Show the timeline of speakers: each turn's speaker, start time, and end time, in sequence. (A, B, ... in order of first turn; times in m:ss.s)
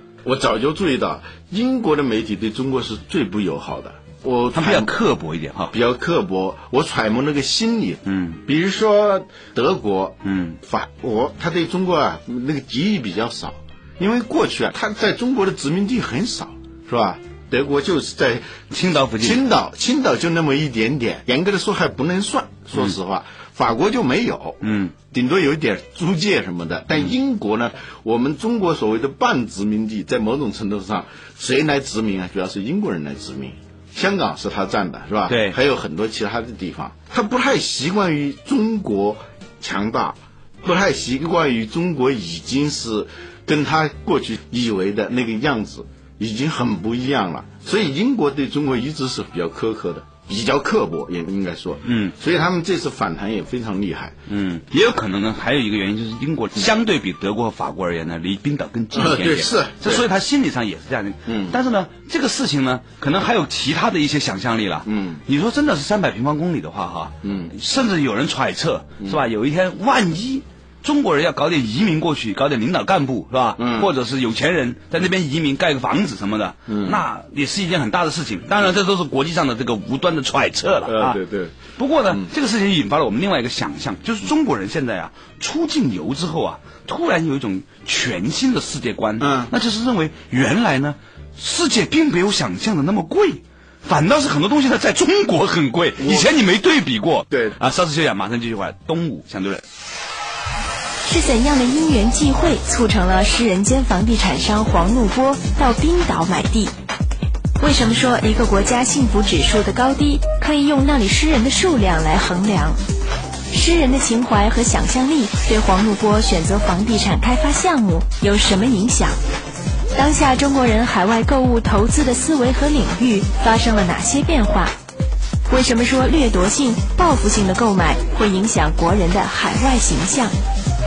0:00.2-0:04.9 A
0:04.5-0:05.7 B
0:05.7-0:18.6 A
0:08.0-0:08.4 B
0:10.2-0:10.6 B
0:18.7-0:19.4 B
0:19.2-0:54.2 A
0:24.6-0:24.9 B
0:35.3-0:35.6 B
0:51.8-0:52.1 B
0:54.3-1:21.2 B
0:58.9-1:00.0 A
1:01.3-1:01.6 A
1:04.8-1:05.2 A
1:07.2-1:07.5 A
1:13.6-1:13.9 A
1:16.7-1:17.0 A
1:20.8-1:21.6 A
1:21.7-1:39.6 B
1:29.2-1:29.5 A
1:36.0-1:36.3 A
1:37.3-1:37.6 A
1:41.0-1:46.7 C
1:47.6-1:52.8 C
1:53.5-1:59.2 C
1:59.9-2:04.7 C
2:05.5-2:10.3 C